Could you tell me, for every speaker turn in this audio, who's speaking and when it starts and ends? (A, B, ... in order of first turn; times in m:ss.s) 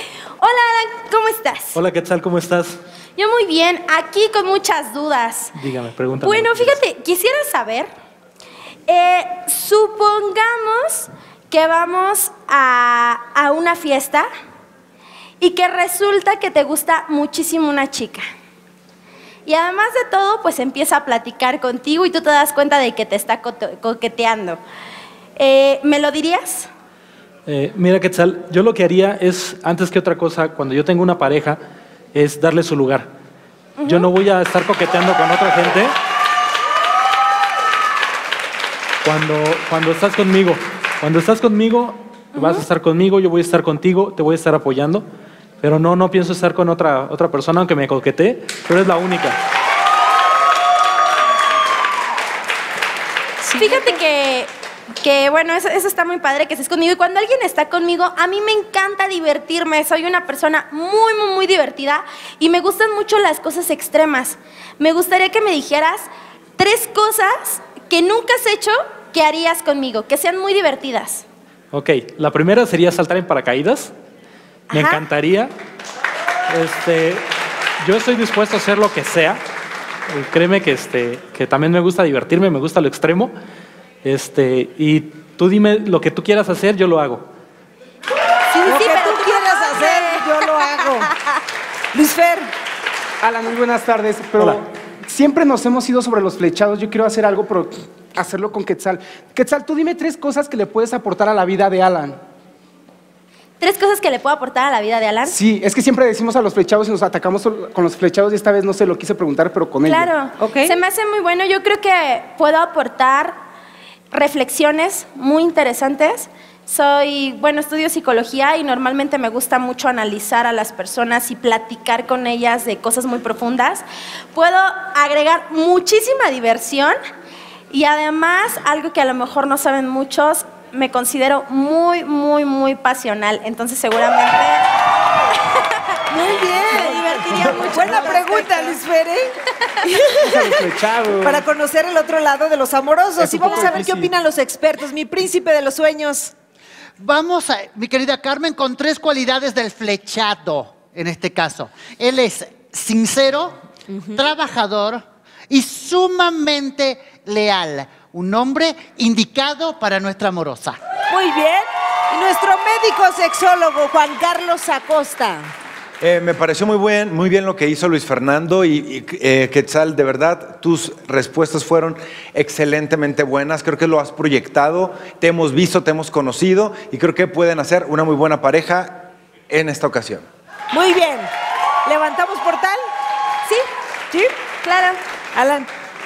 0:00.4-0:01.8 A
0:01.8-0:02.8 B
0:03.2-0:05.5 A
0:05.6-0:06.8 B
0:06.2-0:07.9 A
0:08.9-0:14.3 A
0:15.4-0:18.2 A
0:19.5-0:24.6 A
0:25.4-0:26.7 A
0:27.5-0:31.6 B
0:32.1-0:33.1 B
0:33.8-0:34.1 A
0:33.8-0:35.9 B
0:39.0-0:45.1 B
0:42.4-0:42.6 A
0:45.6-0:49.4 B
0:53.4-0:54.0 C
0:53.6-0:54.5 A
0:55.0-1:11.2 A
1:11.7-1:13.9 B
1:14.7-1:15.0 A
1:14.7-1:15.5 B
1:16.5-1:17.2 B
1:17.8-1:19.4 B
1:20.1-1:23.3 B
1:24.0-1:27.3 B
1:28.5-1:31.1 A
1:28.6-1:31.1 C
1:31.9-1:32.5 C
1:33.2-1:42.2 D
1:43.6-1:45.4 A
1:45.3-1:50.1 D
1:49.8-1:53.4 A
1:50.4-1:50.8 C
1:54.1-2:07.0 A
2:07.7-2:14.7 A
2:16.1-2:20.5 C
2:16.6-2:18.8 A
2:20.2-2:21.4 D
2:21.2-2:26.3 C
2:23.2-2:24.1 D
2:27.0-2:33.6 E
2:33.9-2:34.2 C
2:34.1-2:40.8 E
2:41.1-2:45.5 C
2:46.0-3:00.3 F
3:00.7-3:01.3 C
3:01.8-3:02.9 C
3:04.6-3:05.0 A
3:05.3-3:05.7 C